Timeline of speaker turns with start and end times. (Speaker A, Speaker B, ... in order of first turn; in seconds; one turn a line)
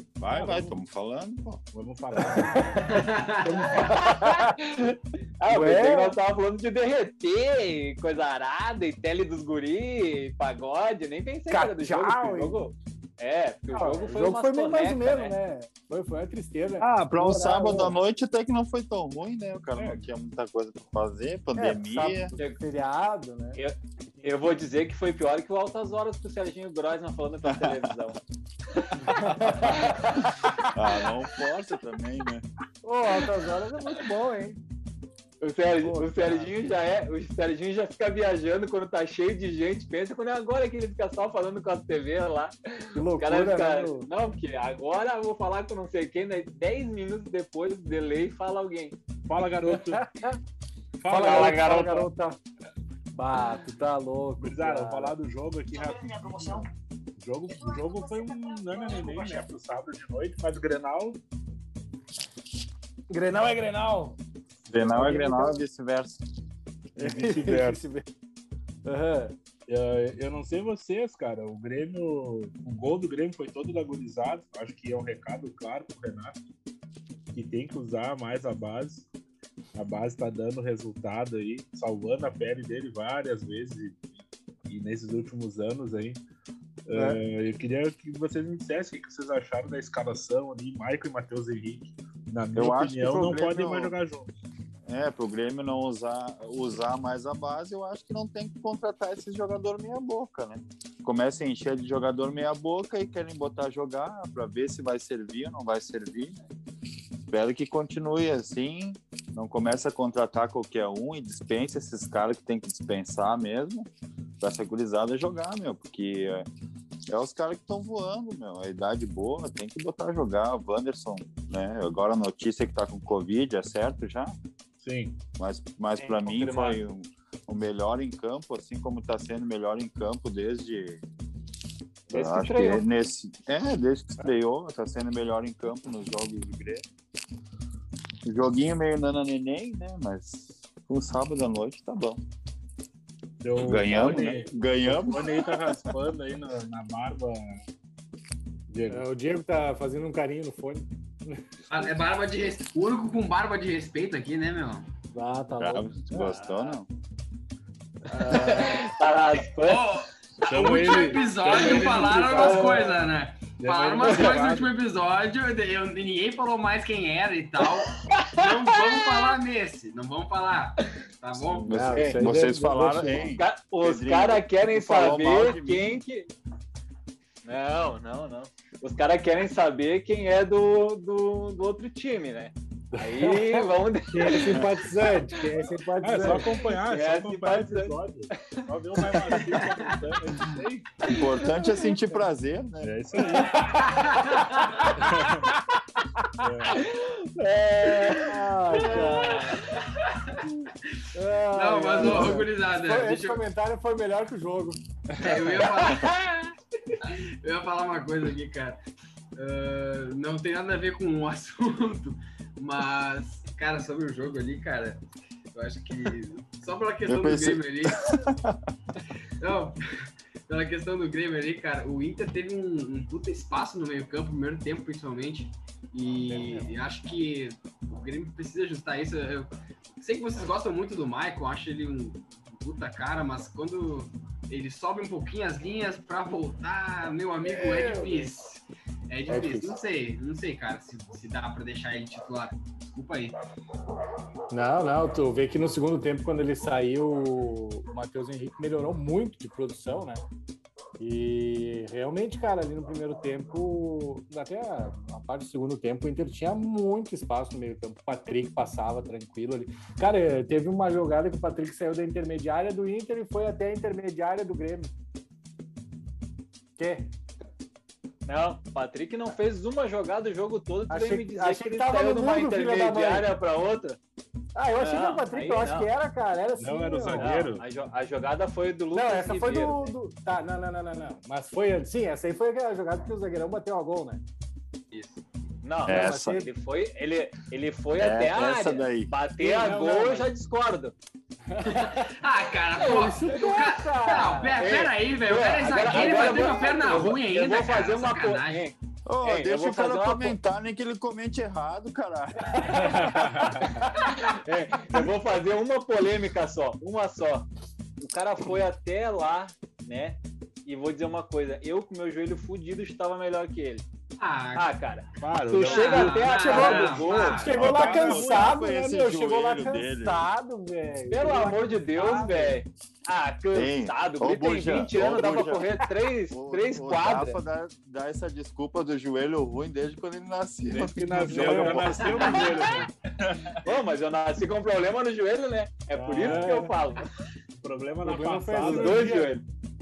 Speaker A: 0.2-1.6
Speaker B: 0.3-0.7
Speaker C: 1.7-3.2
Speaker B: 2.2-4.6
Speaker D: 2.9-3.7
Speaker E: 4.5-15.3
Speaker B: 5.5-6.2
Speaker B: 11.5-12.6
Speaker B: 13.7-18.0
Speaker A: 16.8-22.3
Speaker C: 19.8-20.1
Speaker B: 21.6-23.6
Speaker E: 23.6-28.2
Speaker A: 27.4-27.9
Speaker B: 29.0-29.8
Speaker A: 29.2-29.7
Speaker E: 29.6-30.1
Speaker A: 30.7-32.5
Speaker B: 32.8-34.6
Speaker E: 35.4-49.0
Speaker B: 35.8-36.5
Speaker B: 43.0-44.1
Speaker C: 49.2-50.0
Speaker B: 49.7-50.4
Speaker C: 51.0-51.9
Speaker B: 51.1-52.4
Speaker E: 51.1-52.1
Speaker B: 53.1-55.1
Speaker C: 54.4-61.2
Speaker B: 63.1-64.2
Speaker C: 64.7-65.3
Speaker A: 64.7-66.2
Speaker B: 65.0-65.6
Speaker C: 67.0-67.8
Speaker B: 67.0-68.1
Speaker B: 68.8-69.3
Speaker C: 69.7-76.4
Speaker C: 77.3-79.1
Speaker C: 79.8-86.2
Speaker C: 86.9-94.3
Speaker B: 86.9-87.2
Speaker A: 92.6-93.9
Speaker A: 94.9-106.3
Speaker A: 107.3-113.9
Speaker A: 114.4-116.5
Speaker A: 117.1-124.4
Speaker C: 124.8-125.2
Speaker A: 125.4-131.0
Speaker E: 126.0-126.8
Speaker A: 132.1-136.8
Speaker E: 132.1-132.8
Speaker A: 138.2-142.2
Speaker C: 143.4-147.6
Speaker A: 143.6-145.8
Speaker C: 148.7-149.1
Speaker B: 148.9-151.9
Speaker D: 151.7-154.9
Speaker B: 155.1-156.4
Speaker A: 155.6-156.9
Speaker E: 156.2-156.8
Speaker B: 158.1-159.0
Speaker E: 158.1-159.9
Speaker D: 159.6-171.7
Speaker C: 160.4-162.9
Speaker B: 161.5-163.1
Speaker E: 162.3-162.7
Speaker C: 163.6-164.7
Speaker B: 164.0-164.3
Speaker E: 168.2-168.4
Speaker A: 171.4-176.0
Speaker B: 171.7-172.8
Speaker C: 171.9-173.3
Speaker E: 173.4-176.3
Speaker E: 177.5-184.6
Speaker C: 182.9-183.2
Speaker B: 183.2-186.6
Speaker A: 184.5-184.8
Speaker C: 186.0-191.1
Speaker E: 186.8-189.4
Speaker D: 189.5-190.0
Speaker A: 191.1-192.9
Speaker C: 192.8-193.7
Speaker B: 193.4-193.8
Speaker D: 193.9-194.8
Speaker C: 194.9-195.5
Speaker C: 196.4-196.9
Speaker E: 197.8-198.2
Speaker B: 197.8-199.7
Speaker D: 197.9-200.4
Speaker B: 201.1-204.8
Speaker D: 201.5-203.4
Speaker C: 202.0-202.4
Speaker D: 205.2-206.2
Speaker B: 205.6-206.1
Speaker D: 207.0-208.8
Speaker D: 209.4-215.0
Speaker D: 215.5-218.1
Speaker A: 217.1-218.6
Speaker D: 219.4-229.5
Speaker B: 226.3-226.6
Speaker D: 230.0-243.4
Speaker B: 237.4-238.3
Speaker B: 239.3-239.8
Speaker B: 244.5-250.2
Speaker B: 251.0-264.9
Speaker B: 266.8-267.1
Speaker E: 268.3-274.0
Speaker B: 270.9-273.3
Speaker B: 274.6-277.4
Speaker E: 274.8-275.9
Speaker C: 276.6-277.6
Speaker E: 277.1-279.9
Speaker B: 278.9-284.2
Speaker D: 284.9-285.2
Speaker E: 285.6-290.9
Speaker A: 285.9-286.5
Speaker B: 285.9-286.5
Speaker A: 287.9-289.1
Speaker B: 289.4-290.3
Speaker B: 291.5-292.1
Speaker D: 291.6-298.6
Speaker B: 292.8-294.6
Speaker E: 294.6-300.4
Speaker B: 295.9-297.1
Speaker A: 299.1-303.4
Speaker C: 302.8-303.8
Speaker E: 303.6-307.5
Speaker E: 308.0-313.8
Speaker D: 314.2-314.7
Speaker E: 314.6-317.4
Speaker C: 315.2-316.2
Speaker D: 315.6-317.6
Speaker B: 315.9-322.6
Speaker C: 317.5-318.7
Speaker A: 317.5-320.3
Speaker E: 321.1-327.4
Speaker A: 323.5-325.7
Speaker A: 326.3-332.3
Speaker C: 330.7-333.7
Speaker B: 331.2-332.3
Speaker E: 332.2-332.8
Speaker D: 332.4-332.8
Speaker E: 333.6-337.1
Speaker C: 335.9-336.7
Speaker B: 336.2-336.7
Speaker C: 337.6-339.3
Speaker B: 338.0-339.4
Speaker E: 338.6-339.4